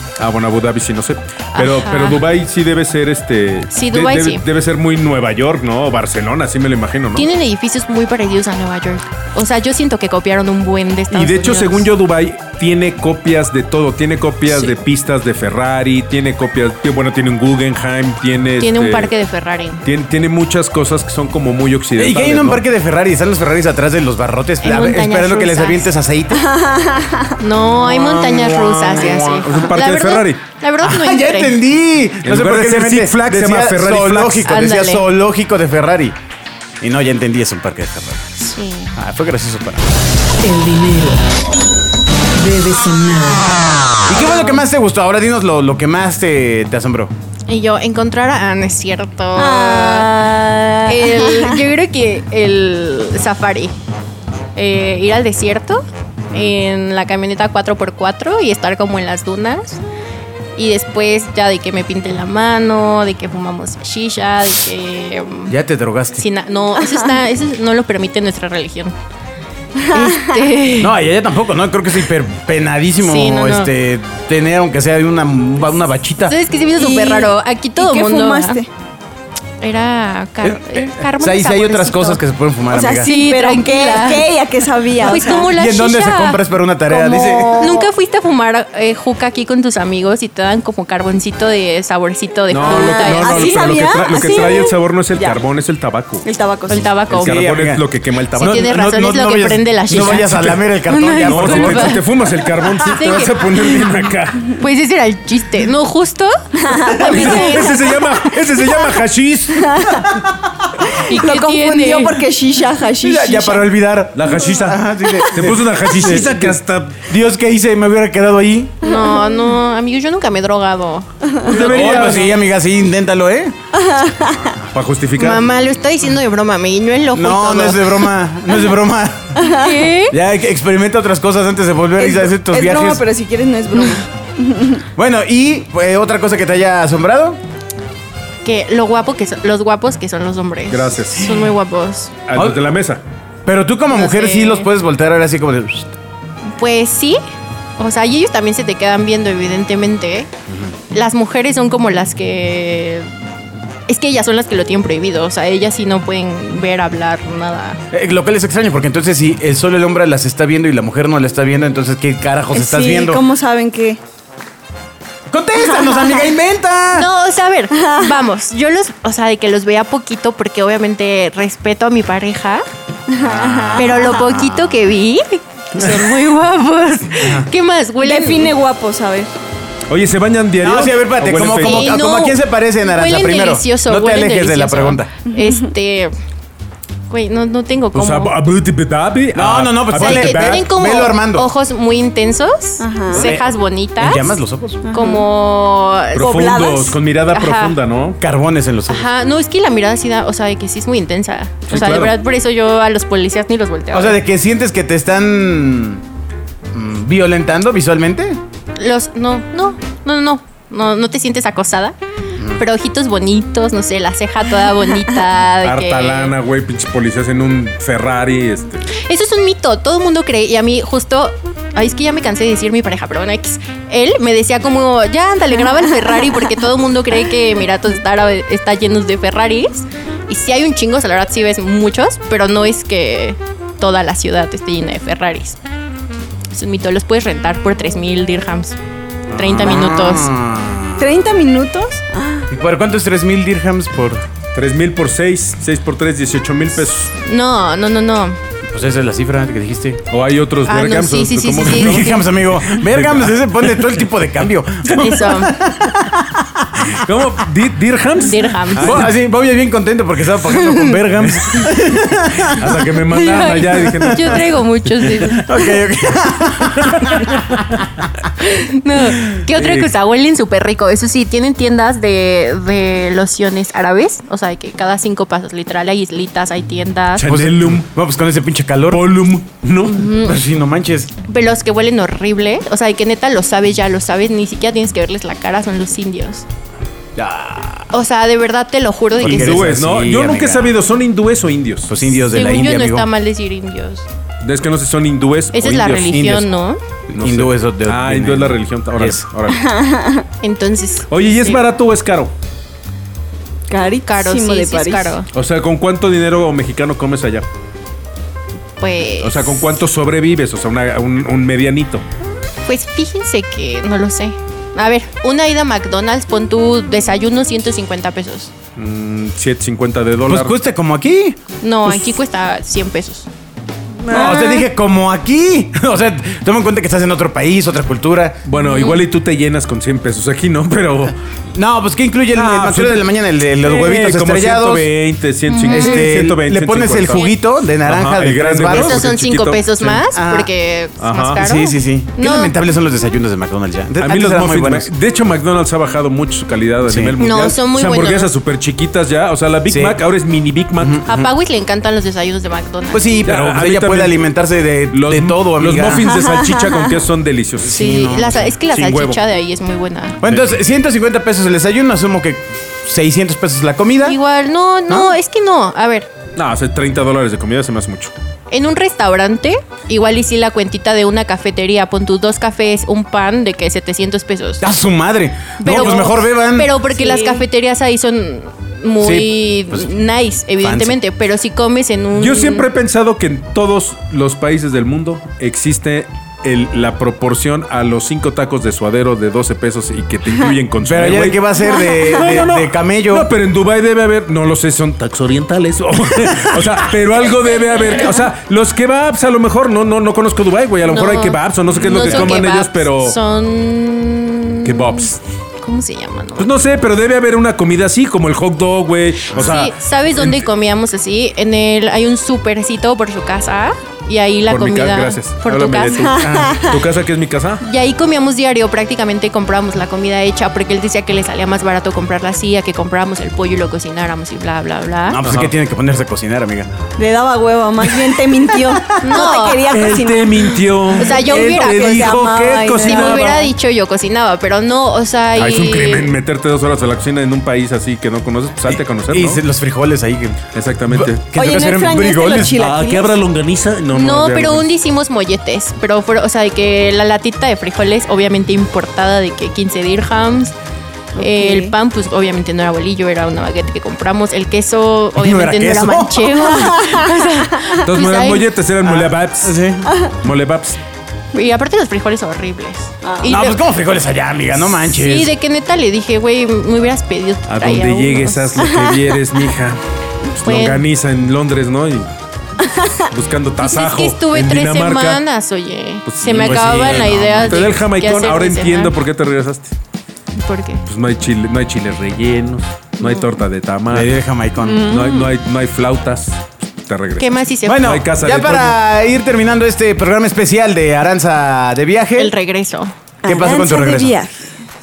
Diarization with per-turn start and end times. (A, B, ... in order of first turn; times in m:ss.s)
0:00.2-0:07.3 A
0:01.5-0:02.2 B
0:03.7-0:04.4 B
0:07.2-0:11.9 B
0:11.1-0:19.1 A
0:18.6-0:19.8 B
0:19.8-0:22.6 A
0:22.0-0:26.5 C
0:24.6-0:25.9 B
0:26.3-0:27.4 D
0:27.4-0:31.6 B
0:27.8-0:29.7 C
0:29.4-0:30.4 A
0:30.8-0:36.2 C
0:32.2-0:34.5 A
0:34.4-0:35.0 B
0:36.8-0:38.3 C
0:38.4-0:39.0 B
0:39.0-0:39.8 C
0:40.4-0:41.2 E
0:42.4-0:44.0 E
0:44.1-0:47.1 C
0:47.5-0:50.2 B
0:49.4-0:51.6 D
0:50.9-0:53.7 B
0:54.6-0:59.8 B
1:00.6-1:05.6 B
1:05.5-1:06.3 C
1:06.2-1:09.0 B
1:09.8-1:10.5 D
1:09.9-1:11.0 B
1:10.8-1:16.4 C
1:13.0-1:13.7 B
1:16.3-1:18.6 B
1:16.8-1:18.7 D
1:19.6-1:22.2 B
1:20.4-1:23.1 C
1:22.7-1:25.5 D
1:23.0-1:24.3 B
1:25.0-1:26.4 B
1:25.4-1:27.7 C
1:26.9-1:27.9 D
1:27.6-1:33.6 B
1:32.5-1:36.3 A
1:32.6-1:35.4 D
1:36.2-1:36.9 D
1:36.7-1:37.4 B
1:37.1-1:38.7 A
1:37.1-1:42.0 C
1:38.4-1:42.0 B
1:39.9-1:40.6 A
1:41.2-1:44.5 A
1:42.8-1:43.6 B
1:44.5-1:48.1 B
1:46.6-1:47.8 D
1:46.9-1:50.1 A
1:49.6-1:50.0 D
1:50.9-1:53.7 D
1:51.0-1:52.2 B
1:53.0-1:58.8 C
1:54.2-1:57.1 A
1:55.1-1:55.5 D
1:58.8-2:01.1 B
1:58.9-1:59.4 D
2:01.3-2:01.9 D
2:01.4-2:02.4 A
2:01.5-2:03.6 C
2:03.7-2:04.6 D
2:04.7-2:05.5 A
2:05.2-2:08.1 B
2:07.1-2:09.4 C
2:09.4-2:09.9 D
2:09.4-2:10.2 B
2:10.1-2:13.0 C
2:12.0-2:14.8 D
2:15.0-2:17.4 C
2:18.4-2:22.1 B
2:20.7-2:21.4 A
2:22.3-2:23.0 A
2:23.4-2:26.0 C
2:23.9-2:24.7 B
2:26.5-2:27.2 B
2:27.8-2:30.3 B
2:30.9-2:33.2 B
2:33.9-2:37.8 B
2:37.9-2:43.2 C
2:42.5-2:44.0 D
2:45.3-2:47.1 C
2:45.7-2:46.2 D
2:46.9-2:52.6 B
2:47.8-2:48.2 D
2:53.1-2:54.2 D
2:53.2-2:54.8 C
2:53.8-2:58.5 B
2:55.8-2:56.1 A
2:57.2-2:57.5 C
2:58.0-2:59.3 D
2:59.9-3:02.0 A
3:00.6-3:05.1 C
3:01.5-3:06.1 B
3:05.4-3:05.6 D
3:07.1-3:08.4 B
3:07.9-3:10.6 A
3:09.3-3:11.5 C
3:10.0-3:16.8 B
3:12.8-3:13.3 D
3:13.1-3:14.8 C
3:14.9-3:15.2 D
3:16.1-3:18.2 A
3:16.2-3:17.0 D
3:17.3-3:17.8 B
3:18.2-3:19.1 C
3:18.9-3:24.2 B
3:21.7-3:22.2 A
3:23.9-3:26.0 C
3:26.7-3:28.4 C
3:28.8-3:32.0 B
3:32.5-3:36.4 B
3:35.6-3:38.9 A
3:38.9-3:55.6 B
3:56.5-3:58.8 B
3:59.3-4:01.2 C
3:59.3-4:00.3 B
4:01.0-4:02.5 D
4:02.5-4:04.2 C
4:04.6-4:07.1 A
4:07.2-4:08.4 B
4:08.7-4:10.0 C
4:10.1-4:14.0 A
4:10.7-4:12.3 B
4:11.7-4:17.0 C
4:14.9-4:15.3 A
4:15.0-4:15.6 B
4:16.9-4:19.1 A
4:18.2-4:19.1 B
4:18.8-4:23.0 C
4:20.5-4:21.6 B
4:22.5-4:25.3 A
4:23.1-4:25.6 B
4:23.8-4:24.4 C
4:25.3-4:27.3 C
4:26.6-4:28.0 A
4:28.4-4:37.3 B
4:29.5-4:29.9 A
4:37.2-4:37.9 A
4:37.2-4:39.1 C
4:38.9-4:40.1 A
4:39.9-4:40.4 B
4:40.1-4:41.1 C
4:41.2-4:46.5 B
4:47.2-4:47.9 C
4:47.9-4:49.7 B
4:49.2-4:50.8 C
4:49.2-4:51.9 A
4:51.9-4:53.1 C
4:52.1-4:54.1 B
4:54.4-4:56.5 A
4:55.5-4:56.8 B
4:57.1-4:59.2 C
4:57.2-4:59.7 A
4:59.5-5:00.3 D
5:00.4-5:01.6 B
5:01.1-5:02.3 A
5:03.7-5:05.2 D
5:04.1-5:05.3 B
5:05.3-5:07.5 A
5:08.8-5:09.7 B
5:09.2-5:12.0 A
5:12.6-5:18.5 B
5:18.8-5:20.6 A
5:20.3-5:21.4 C
5:21.6-5:23.3 B
5:24.0-5:24.5 A
5:24.1-5:28.4 C
5:28.5-5:31.2 A
5:28.5-5:29.0 B
5:31.5-5:34.9 C
5:32.3-5:37.3 A
5:35.5-5:36.2 B
5:35.7-5:39.0 C
5:37.8-5:40.0 A
5:38.7-5:42.5 B
5:40.1-5:40.5 C
5:41.0-5:41.4 A
5:41.4-5:44.9 C
5:44.0-5:51.3 A
5:46.8-5:47.2 C
5:47.2-5:48.3 B
5:49.7-5:50.0 C
5:50.8-5:51.1 C
5:51.1-5:53.2 B
5:52.9-5:56.1 C
5:53.3-5:54.2 A
5:54.9-5:59.2 A
5:56.0-5:56.8 D
5:57.7-5:58.4 C
5:57.7-6:00.2 B
6:00.2-6:04.2 C
6:04.0-6:06.1 B
6:06.4-6:08.1 A
6:08.5-6:14.6 B
6:14.6-6:16.8 C
6:15.6-6:22.7 B
6:17.0-6:17.4 D
6:19.0-6:19.9 C
6:20.6-6:21.0 C
6:22.2-6:43.2 A
6:30.8-6:33.3 C
6:31.6-6:32.4 D
6:40.9-6:46.6 B
6:41.7-6:42.4 C
6:44.6-6:45.2 A
6:46.4-6:50.4 A
6:49.3-6:49.6 C
6:49.3-6:56.1 B
6:54.5-6:57.6 A
6:56.0-6:56.8 D
6:56.2-6:56.6 C
6:57.6-7:05.2 B
7:05.1-7:06.7 C
7:05.2-7:05.5 A
7:07.0-7:13.5 D
7:09.0-7:09.8 B
7:09.7-7:13.5 A
7:11.0-7:16.1 B
7:15.4-7:19.4 A
7:18.7-7:22.6 C
7:20.5-7:21.2 A
7:21.3-7:23.2 D
7:22.5-7:24.7 A
7:23.9-7:30.5 B
7:31.2-7:31.8 D
7:31.2-7:38.5 B
7:35.2-7:36.5 C
7:36.5-7:37.1 D
7:37.8-7:39.6 A
7:38.8-7:39.9 C
7:39.9-7:40.1 D
7:40.2-7:40.8 A
7:41.3-7:43.6 B
7:43.0-7:43.4 D
7:43.2-7:45.3 C
7:44.7-7:48.6 B
7:47.5-7:52.1 A
7:48.6-7:49.0 D
7:50.4-7:50.8 B
7:52.6-7:52.9 D
7:53.1-7:55.2 A
7:53.6-7:58.9 B
7:56.1-7:59.7 A
7:56.2-7:57.6 C
8:00.4-8:00.8 B
8:00.9-8:04.2 A
8:03.0-8:03.2 B
8:03.9-8:04.8 C
8:04.6-8:05.3 D
8:04.9-8:08.8 A
8:07.2-8:08.0 B
8:07.6-8:12.3 C
8:12.2-8:12.9 B
8:13.2-8:14.2 C
8:13.2-8:14.5 D